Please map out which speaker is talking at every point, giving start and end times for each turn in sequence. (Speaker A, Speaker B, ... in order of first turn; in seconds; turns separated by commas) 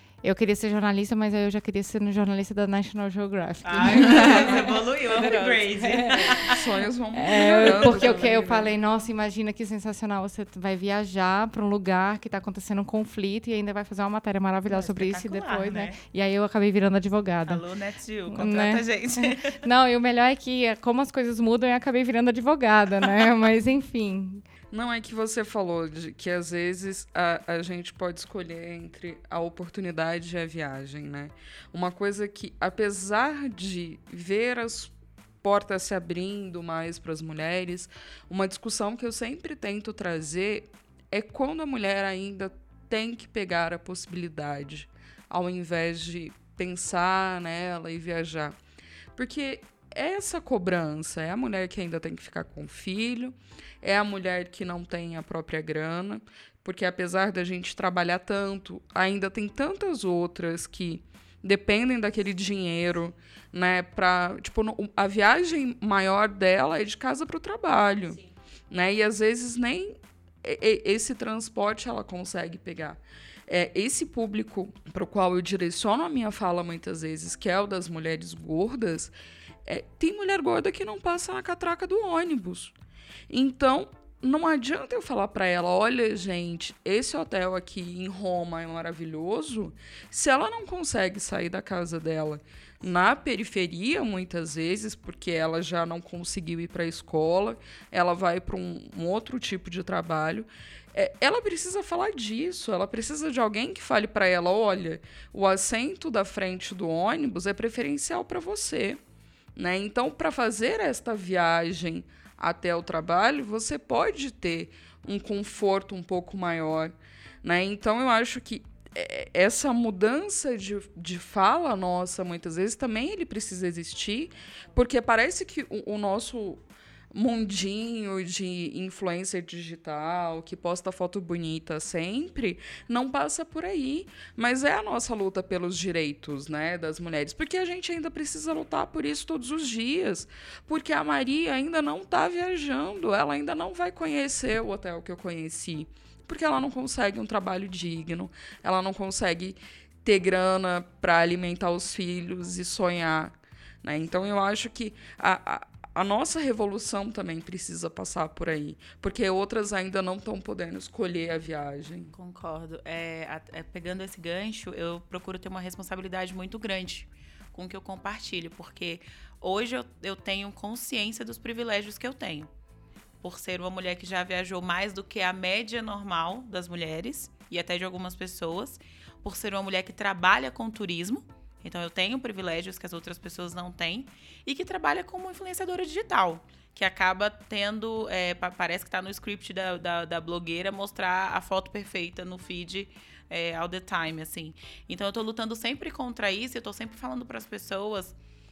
Speaker A: 0.2-6.5, Speaker B: 3.6-6.6, Speaker C: 4.1-4.8, Speaker C: 6.3-8.7, Speaker A: 7.1-17.6, Speaker B: 7.5-8.2, Speaker B: 14.7-16.0, Speaker B: 17.4-19.6, Speaker A: 18.3-24.4, Speaker C: 24.7-48.5, Speaker C: 49.1-79.1, Speaker C: 79.6-82.7, Speaker C: 83.3-109.0, Speaker C: 109.5-162.1, Speaker B: 162.1-172.5, Speaker B: 173.2-198.1